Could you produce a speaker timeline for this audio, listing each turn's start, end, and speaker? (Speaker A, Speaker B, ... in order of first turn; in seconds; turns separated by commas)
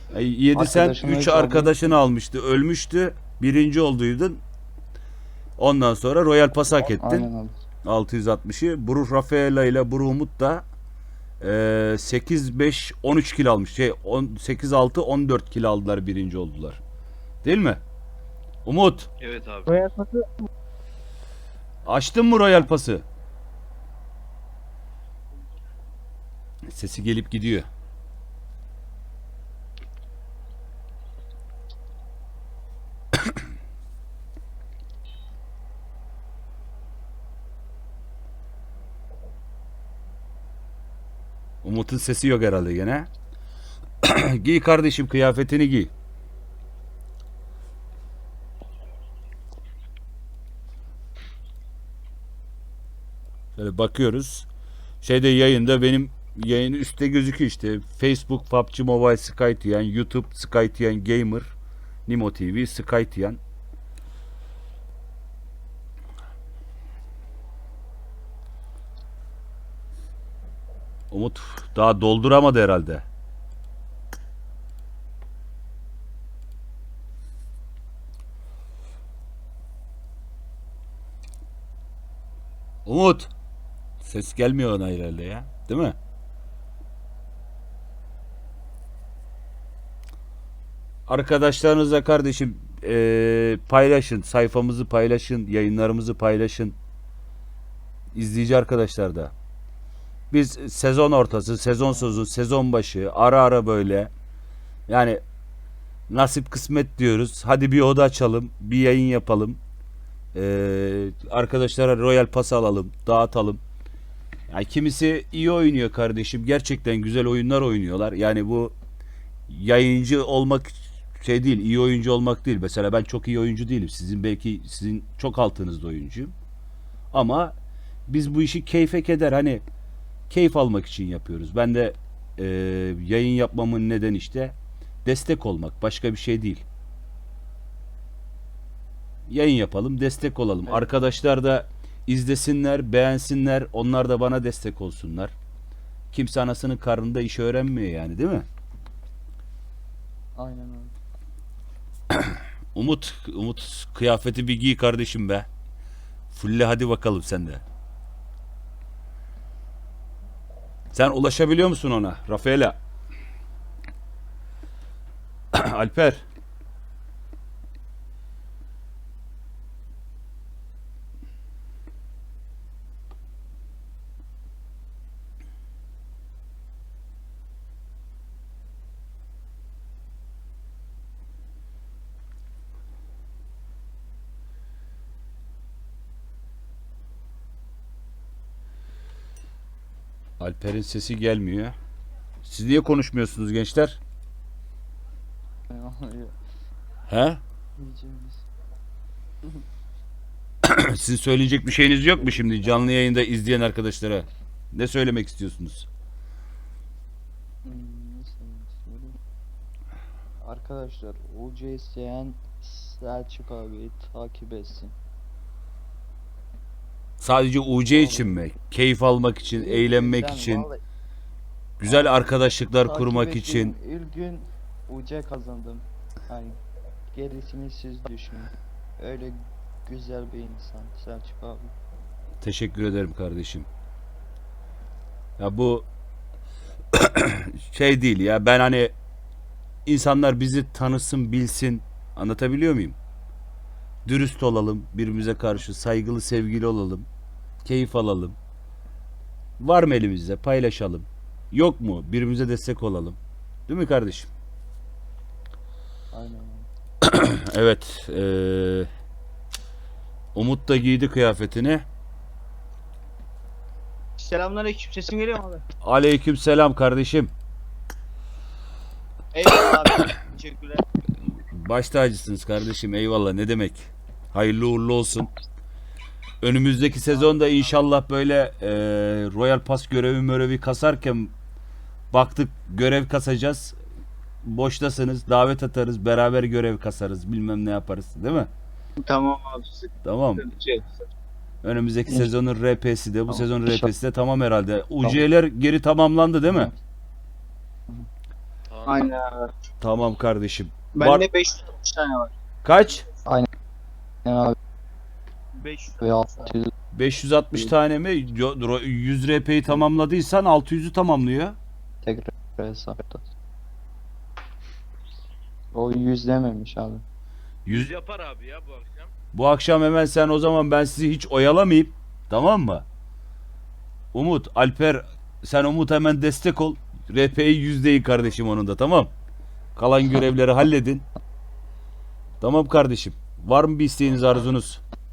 Speaker A: 0.1-4.4, Speaker B: 0.5-1.9, Speaker A: 5.6-7.3, Speaker B: 6.7-7.5, Speaker A: 7.8-10.6, Speaker A: 11.4-16.8, Speaker A: 17.4-17.8, Speaker A: 18.7-19.1, Speaker C: 19.2-19.7, Speaker D: 19.7-20.5, Speaker A: 21.9-23.1, Speaker A: 26.7-27.7, Speaker A: 41.6-43.1, Speaker A: 44.0-45.9, Speaker A: 53.6-54.5, Speaker A: 55.0-61.5, Speaker A: 62.1-63.4, Speaker A: 71.1-73.0, Speaker A: 82.9-83.3, Speaker A: 84.0-86.0, Speaker A: 91.1-96.8, Speaker A: 98.1-99.3, Speaker A: 100.3-104.1, Speaker A: 104.9-105.2, Speaker A: 106.1-109.6, Speaker A: 110.3-113.6, Speaker A: 114.5-118.7, Speaker A: 119.5-126.3, Speaker A: 127.1-127.5, Speaker A: 128.1-129.6, Speaker A: 130.3-136.7, Speaker A: 139.3-145.3, Speaker B: 140.7-140.9, Speaker A: 146.1-148.5, Speaker B: 150.4-150.9, Speaker A: 152.1-155.5, Speaker A: 156.3-157.6, Speaker A: 160.9-162.8, Speaker A: 165.5-166.2, Speaker A: 190.4-191.8, Speaker A: 192.4-194.0, Speaker B: 195.7-196.4, Speaker A: 197.1-197.4, Speaker B: 197.8-198.4, Speaker A: 200.7-205.9, Speaker B: 207.6-209.2, Speaker B: 210.4-214.9, Speaker A: 217.2-220.7, Speaker B: 217.9-218.3, Speaker B: 219.6-220.8, Speaker A: 221.8-223.8, Speaker B: 221.9-222.1, Speaker B: 222.8-226.6, Speaker B: 227.1-231.8, Speaker A: 232.4-233.7, Speaker A: 235.4-235.9, Speaker A: 236.9-238.9, Speaker A: 239.9-243.0, Speaker A: 244.1-247.1, Speaker A: 247.6-248.4, Speaker A: 249.6-254.3, Speaker B: 256.1-256.7, Speaker A: 257.0-258.9, Speaker A: 260.4-261.9, Speaker D: 264.2-265.6, Speaker A: 265.8-267.3, Speaker D: 269.3-270.9, Speaker A: 271.4-275.3, Speaker A: 276.4-281.3, Speaker D: 277.2-277.6, Speaker A: 282.1-283.8, Speaker A: 284.4-288.5, Speaker D: 289.0-291.1, Speaker A: 290.0-290.5, Speaker A: 291.6-296.7, Speaker B: 293.3-293.9, Speaker C: 298.7-299.0, Speaker D: 298.9-299.5, Speaker A: 299.8-301.3, Speaker D: 300.9-302.3, Speaker A: 302.6-303.1, Speaker B: 304.2-304.6, Speaker D: 305.6-306.5, Speaker B: 306.0-306.7, Speaker A: 306.9-311.6, Speaker B: 312.0-313.2, Speaker B: 315.7-317.0, Speaker C: 317.7-319.1, Speaker A: 319.3-322.9, Speaker A: 324.1-329.1, Speaker A: 329.8-331.1, Speaker A: 332.4-334.8